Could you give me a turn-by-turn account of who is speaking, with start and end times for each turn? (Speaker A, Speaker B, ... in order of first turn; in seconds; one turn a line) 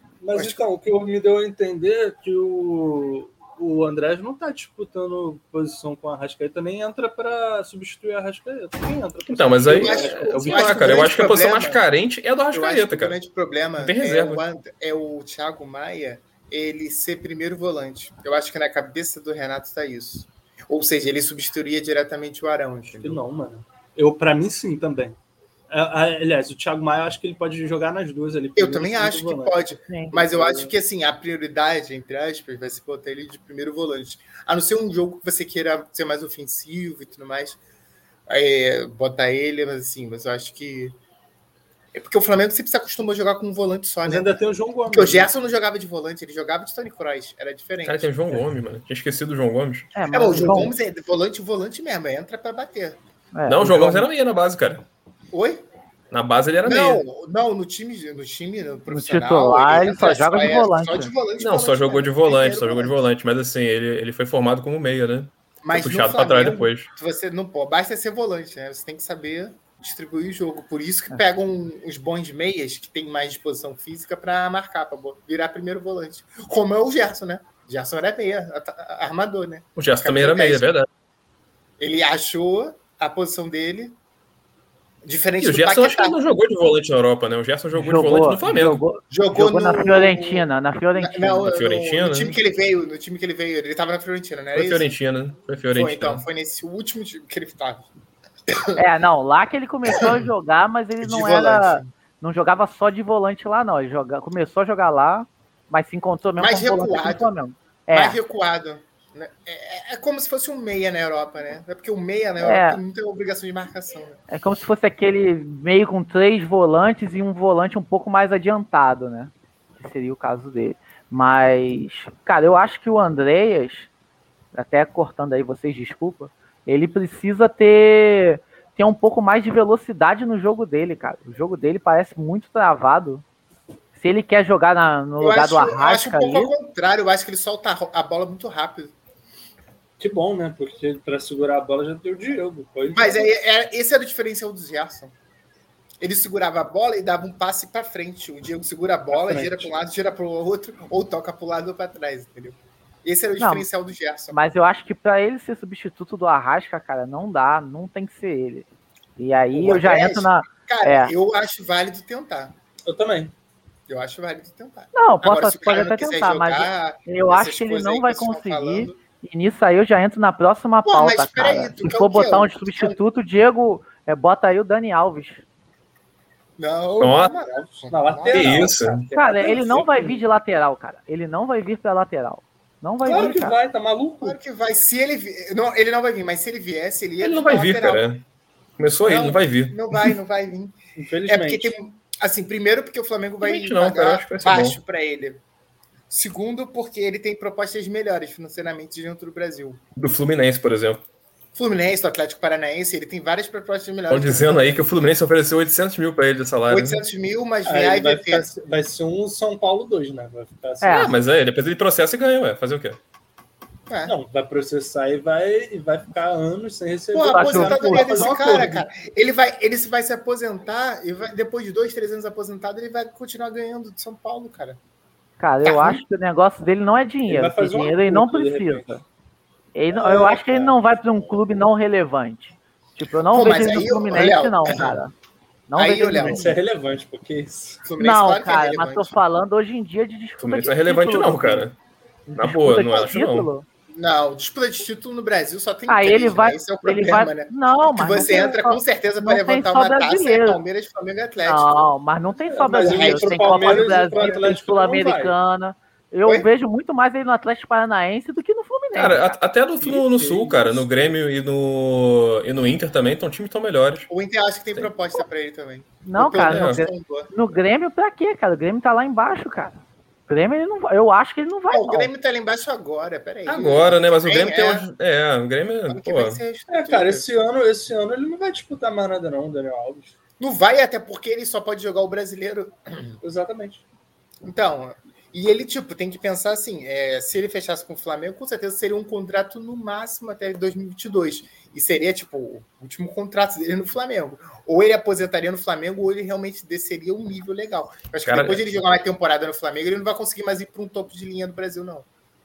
Speaker A: 0.2-11.2
Speaker B: 0.3-0.6
Speaker C: 9.3-13.2
Speaker B: 9.7-11.8
Speaker B: 12.5-23.2
Speaker C: 13.8-14.4
Speaker A: 23.0-25.2
Speaker A: 25.7-29.6
Speaker B: 28.6-37.6
Speaker D: 29.9-30.2
Speaker A: 30.1-30.7
Speaker B: 38.3-41.0
Speaker B: 41.9-48.4
Speaker A: 44.0-45.3
Speaker C: 47.8-49.9
Speaker D: 50.0-50.7
Speaker B: 50.1-53.0
Speaker D: 53.3-54.1
Speaker C: 53.5-54.9
Speaker B: 55.3-55.6
Speaker C: 56.1-57.0
Speaker B: 56.6-63.0
Speaker D: 58.9-61.1
Speaker C: 61.4-66.9
Speaker B: 65.6-80.7
Speaker C: 79.8-80.9
Speaker B: 81.8-84.0
Speaker B: 85.0-86.2
Speaker C: 85.4-88.8
Speaker D: 87.7-91.5
Speaker B: 89.1-94.9
Speaker C: 91.4-92.4
Speaker C: 94.5-96.2
Speaker B: 95.7-97.9
Speaker B: 98.5-98.8
Speaker D: 98.8-108.2
Speaker B: 99.9-100.3
Speaker B: 101.0-101.9
Speaker B: 106.4-107.3
Speaker B: 107.9-114.2
Speaker D: 112.4-112.8
Speaker D: 114.3-123.9
Speaker D: 124.5-133.2
Speaker D: 133.9-136.5
Speaker B: 135.2-138.9
Speaker A: 140.0-143.3
Speaker B: 142.9-145.1
Speaker B: 146.0-154.4
Speaker A: 149.1-149.7
Speaker D: 153.4-153.7
Speaker D: 154.3-161.1
Speaker B: 159.5-162.6
Speaker A: 162.9-163.3
Speaker B: 163.9-169.0
Speaker D: 164.9-175.4
Speaker B: 170.8-173.0
Speaker B: 176.6-178.7
Speaker C: 177.0-177.3
Speaker A: 177.4-180.2
Speaker C: 178.3-179.0
Speaker D: 179.1-183.6
Speaker A: 183.0-184.4
Speaker B: 183.1-183.3
Speaker B: 184.2-188.1
Speaker C: 187.2-188.2
Speaker C: 188.8-189.8
Speaker B: 189.0-195.4
Speaker A: 191.0-191.7
Speaker C: 193.4-194.8
Speaker B: 196.1-199.8
Speaker C: 200.0-201.0
Speaker B: 201.6-204.8
Speaker C: 204.1-207.0
Speaker B: 206.7-208.5
Speaker A: 207.7-211.2
Speaker D: 210.8-211.2
Speaker C: 210.9-213.0
Speaker B: 213.9-214.2
Speaker A: 214.1-218.9
Speaker B: 217.1-224.8
Speaker D: 217.2-218.3
Speaker D: 225.4-229.0
Speaker B: 225.6-226.0
Speaker A: 227.3-228.9
Speaker D: 229.8-235.1
Speaker A: 229.9-230.8
Speaker B: 233.3-235.0
Speaker D: 235.7-236.6
Speaker B: 235.8-236.6
Speaker A: 236.2-237.8
Speaker B: 237.8-239.2
Speaker D: 238.0-241.7
Speaker C: 240.4-241.8
Speaker D: 242.3-243.7
Speaker C: 242.4-243.5
Speaker B: 243.9-251.8
Speaker D: 245.9-250.6
Speaker D: 251.4-259.4
Speaker A: 252.4-255.4
Speaker B: 252.8-254.4
Speaker C: 258.9-264.1
Speaker A: 259.8-261.2
Speaker B: 264.1-267.3
Speaker D: 266.0-272.1
Speaker C: 266.4-266.8
Speaker B: 271.7-274.9
Speaker C: 273.5-276.4
Speaker B: 275.9-277.3
Speaker A: 276.7-280.1
Speaker B: 280.4-283.2
Speaker A: 283.2-283.8
Speaker B: 284.4-302.1
Speaker C: 298.3-298.6